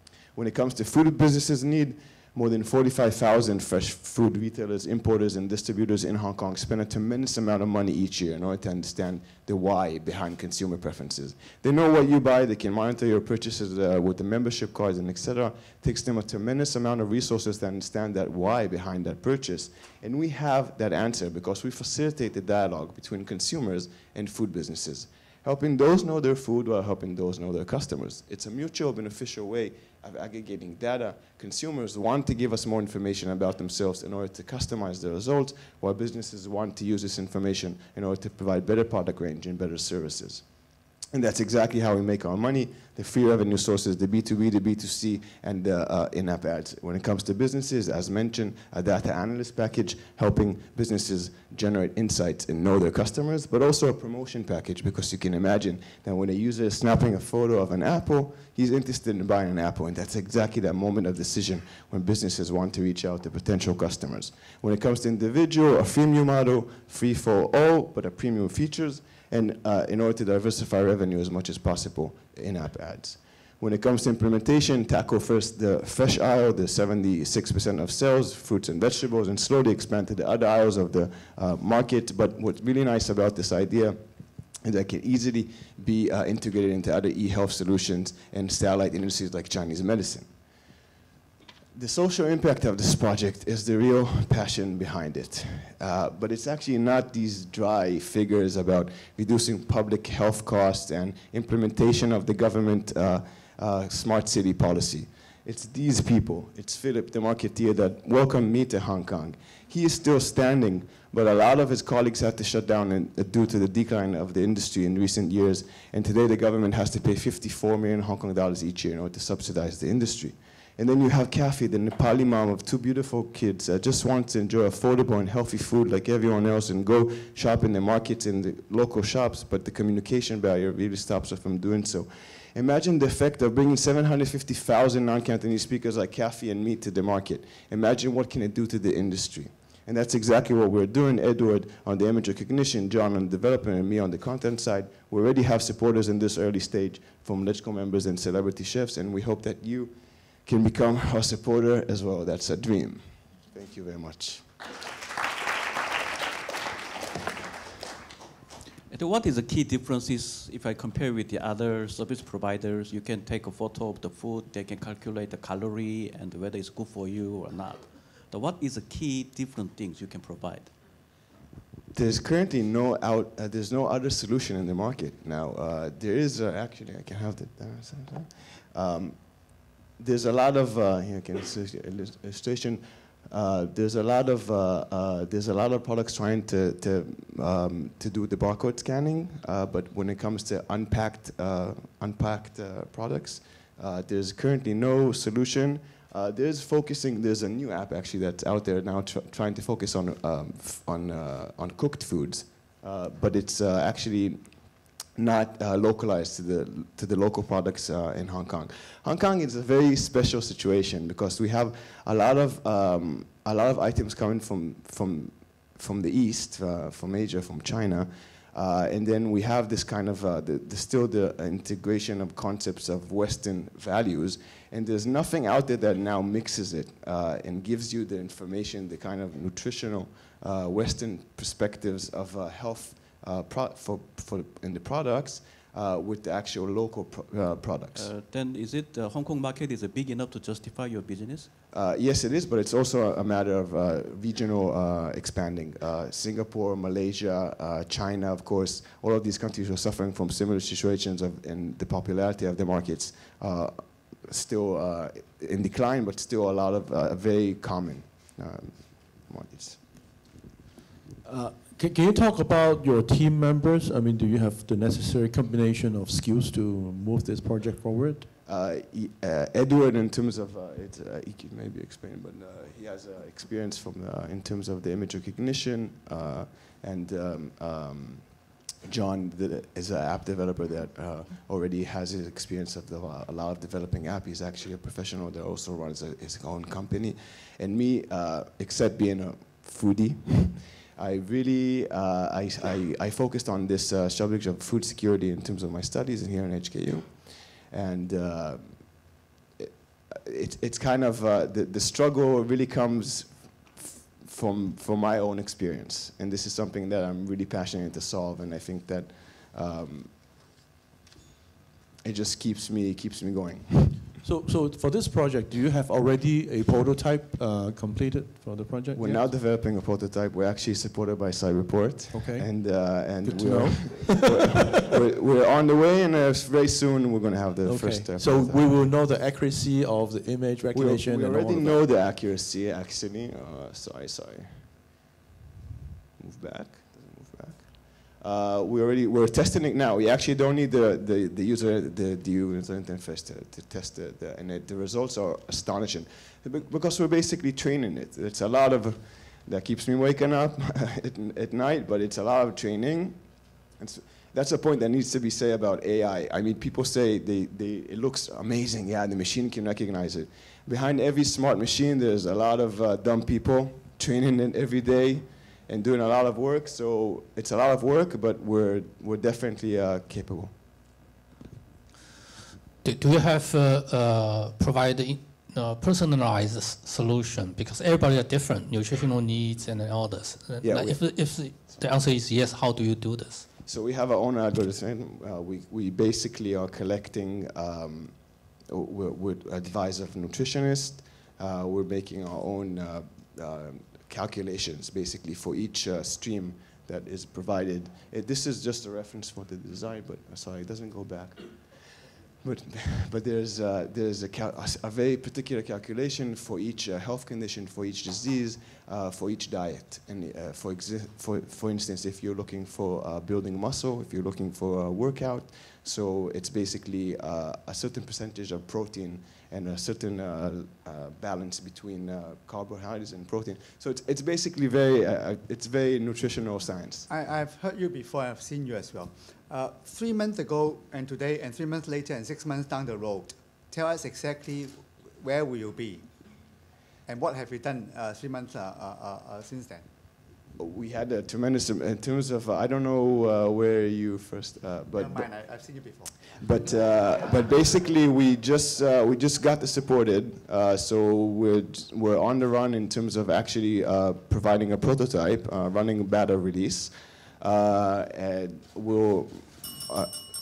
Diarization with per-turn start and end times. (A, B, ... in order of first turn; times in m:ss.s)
0:00.3-0:40.4 A
0:41.1-1:24.0 A
1:24.6-1:30.3 A
1:31.7-2:34.5 A
2:38.9-2:50.7 B
2:51.9-3:24.4 A
3:25.2-3:58.1 A
3:57.9-4:01.5 B
4:01.7-4:19.8 A
4:21.2-4:28.3 C
4:28.4-4:38.3 A
4:38.8-4:59.0 A
4:59.6-5:10.1 A
5:12.0-5:14.0 A
5:14.2-5:19.3 C
5:18.9-5:28.6 A
5:22.1-5:24.8 C
5:27.6-5:31.9 C
5:30.7-5:34.7 A
5:36.2-5:53.2 A
5:53.7-6:10.5 A
6:12.8-6:23.4 D
6:20.6-6:21.0 A
6:23.7-6:41.6 A
6:42.4-7:07.1 A
7:07.1-7:16.1 E
7:17.1-7:19.9 E
7:20.6-7:25.3 A
7:25.0-7:26.1 E
7:26.4-7:40.1 A